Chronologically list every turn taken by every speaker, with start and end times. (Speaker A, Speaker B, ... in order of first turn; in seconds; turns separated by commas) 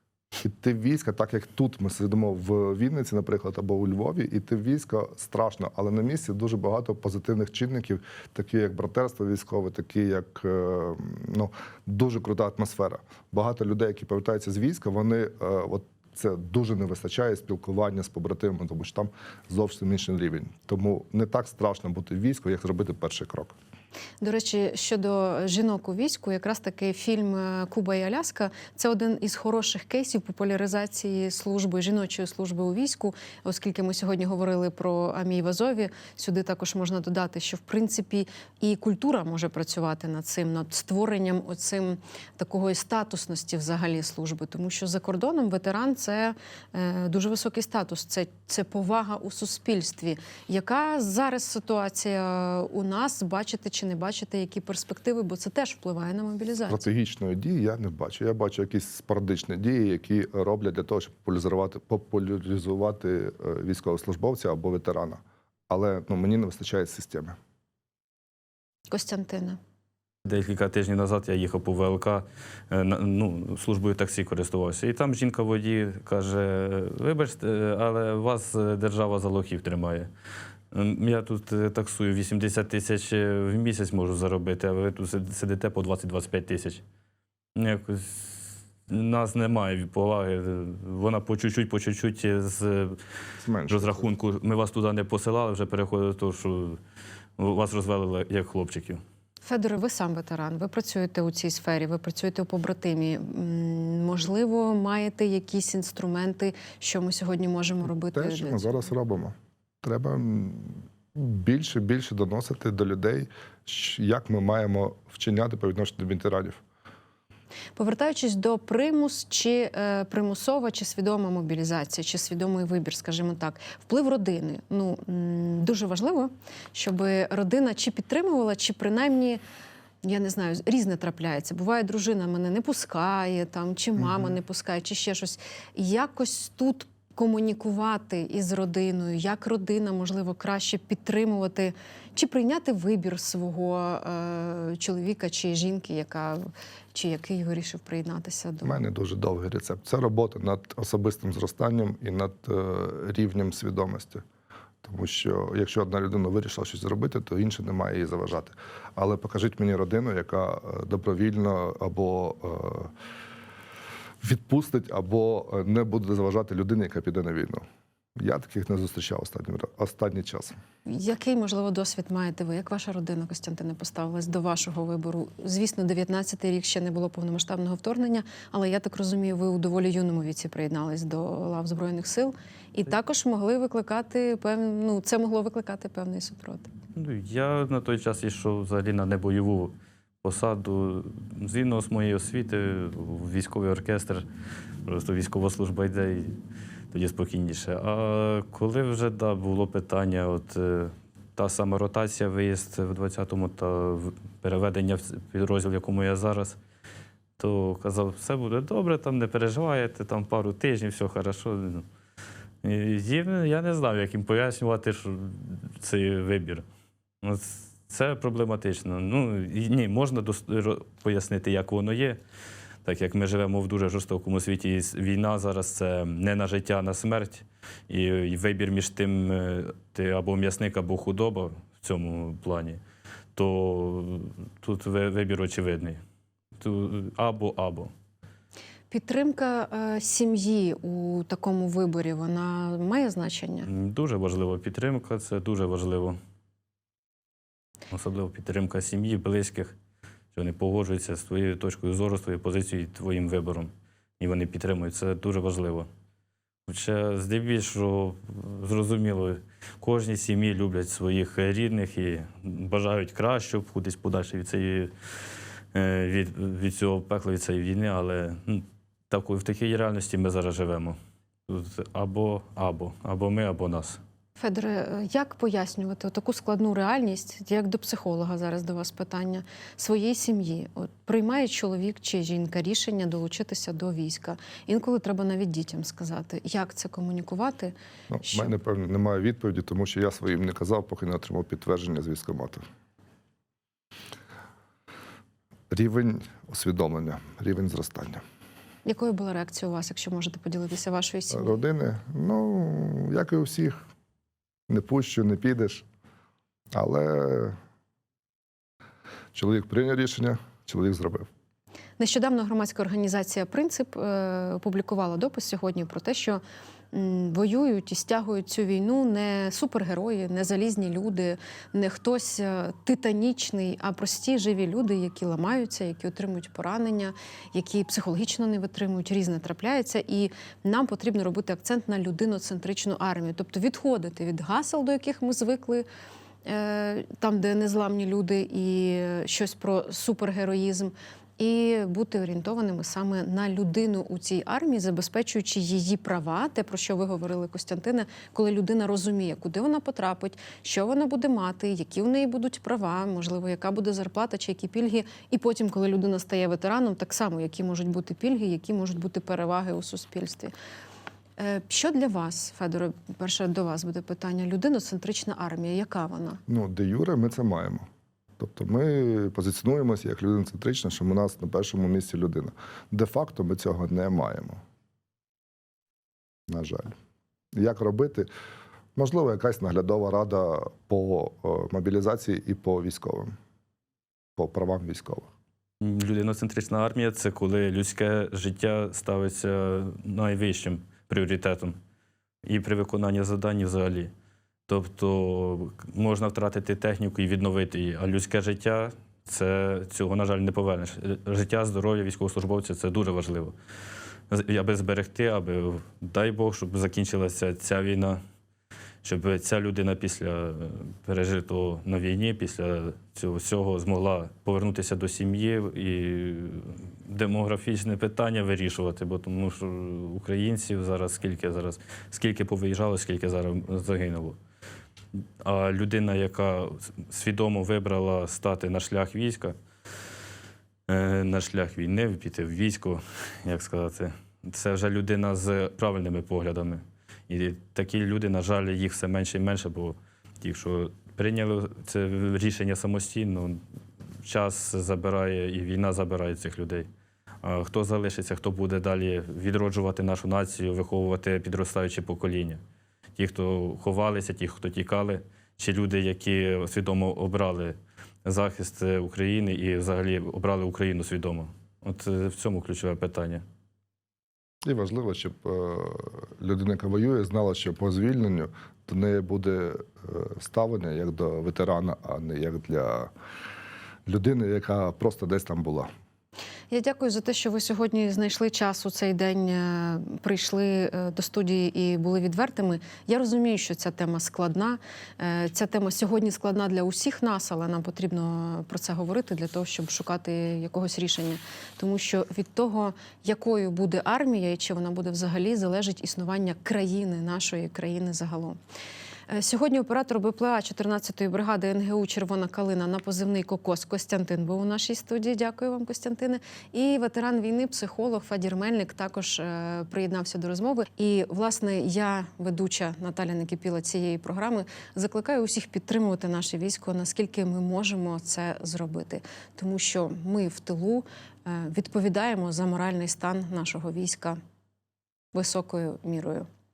Speaker A: 0.4-23.6, Speaker B: 24.2-56.9, Speaker A: 56.7-67.4, Speaker B: 68.9-69.6, Speaker C: 70.2-80.1, Speaker C: 80.7-86.8, Speaker C: 87.5-93.0, Speaker A: 93.4-94.1, Speaker C: 93.7-96.8, Speaker C: 97.4-99.0, Speaker B: 99.5-108.9, Speaker A: 108.1-116.6, Speaker B: 117.8-129.4, Speaker B: 130.0-146.4, Speaker B: 146.9-148.8, Speaker A: 148.6-154.2, Speaker A: 154.8-162.9, Speaker A: 164.2-167.6, Speaker A: 168.2-170.6, Speaker B: 170.9-186.7, Speaker C: 187.0-194.2, Speaker C: 194.9-196.4, Speaker C: 196.9-206.6, Speaker C: 207.4-211.9, Speaker C: 212.6-216.7, Speaker C: 217.2-222.2, Speaker C: 222.8-232.8, Speaker C: 233.3-236.0, Speaker C: 236.6-237.9, Speaker B: 238.9-243.7, Speaker C: 243.7-246.2, Speaker C: 247.9-249.8, Speaker C: 250.3-255.9, Speaker C: 256.7-264.9, Speaker C: 265.7-271.0, Speaker C: 271.5-274.0, Speaker B: 274.4-287.7, Speaker A: 288.1-292.6, Speaker B: 288.2-288.5, Speaker A: 295.7-298.2, Speaker B: 298.9-301.6, Speaker A: 301.3-303.8, Speaker A: 304.7-305.9, Speaker A: 306.7-307.6, Speaker A: 309.3-311.3, Speaker B: 312.0-335.9, Speaker B: 336.5-360.5, Speaker B: 361.4-366.4, Speaker A: 366.5-367.9, Speaker A: 368.4-374.6, Speaker A: 376.5-376.9, Speaker A: 377.6-378.3, Speaker A: 379.0-383.3, Speaker A: 384.4-385.3, Speaker C: 385.8-391.8, Speaker C: 392.4-394.1, Speaker C: 394.7-403.5, Speaker C: 404.3-408.2, Speaker C: 409.0-424.4, Speaker C: 425.4-429.6, Speaker C: 430.9-443.6, Speaker C: 444.2-446.9, Speaker C: 447.4-452.6, Speaker C: 453.2-463.4, Speaker A: 464.6-473.1, Speaker A: 474.1-475.9, Speaker B: 476.7-498.6, Speaker B: 499.3-524.4, Speaker B: 525.3-526.5